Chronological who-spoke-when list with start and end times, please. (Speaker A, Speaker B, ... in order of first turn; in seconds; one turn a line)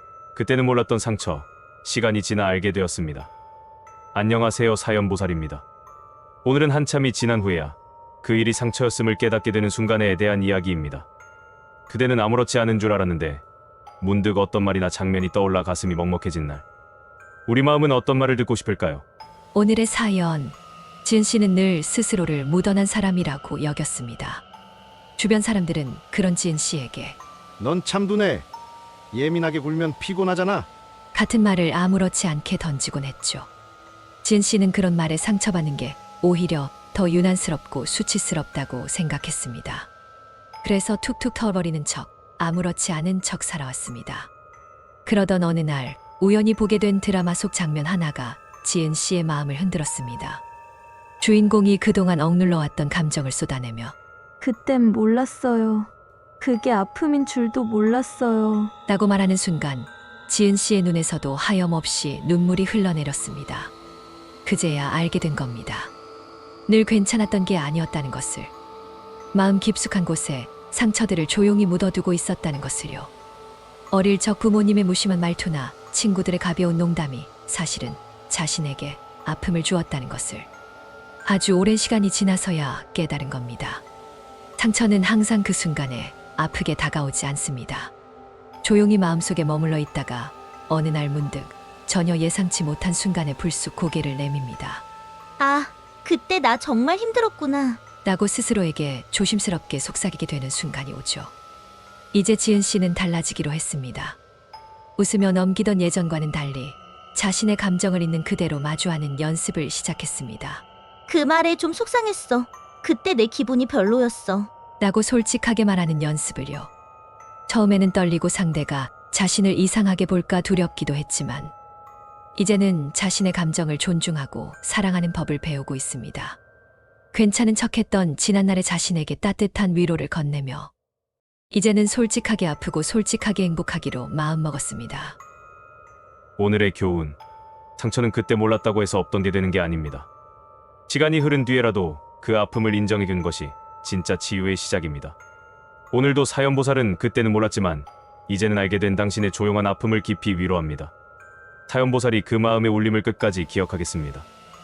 Speaker A: 0.3-3.3
Speaker A: 4.1-5.6
Speaker A: 6.4-11.1
Speaker A: 11.9-13.4
Speaker A: 14.0-16.6
Speaker A: 17.5-19.0
Speaker B: 19.5-24.4
Speaker B: 25.2-27.2
Speaker C: 27.6-28.5
Speaker C: 29.1-30.7
Speaker B: 31.1-33.5
Speaker B: 34.2-39.9
Speaker B: 40.6-44.3
Speaker B: 45.0-50.4
Speaker B: 51.2-53.9
Speaker D: 54.4-58.7
Speaker B: 58.9-63.7
Speaker B: 64.5-65.9
Speaker B: 66.7-68.5
Speaker B: 69.3-73.1
Speaker B: 73.9-80.5
Speaker B: 81.2-83.8
Speaker B: 84.6-87.9
Speaker B: 88.6-94.8
Speaker E: 95.4-97.8
Speaker B: 98.0-101.3
Speaker B: 102.1-104.2
Speaker B: 105.0-110.6
Speaker E: 111.1-114.5
Speaker B: 114.8-116.7
Speaker B: 117.5-121.5
Speaker B: 122.3-126.4
Speaker B: 127.1-130.7
Speaker B: 131.5-135.2
Speaker A: 136.4-137.2
Speaker A: 137.8-140.1
Speaker A: 140.9-145.2
Speaker A: 145.9-150.9
Speaker A: 151.7-154.3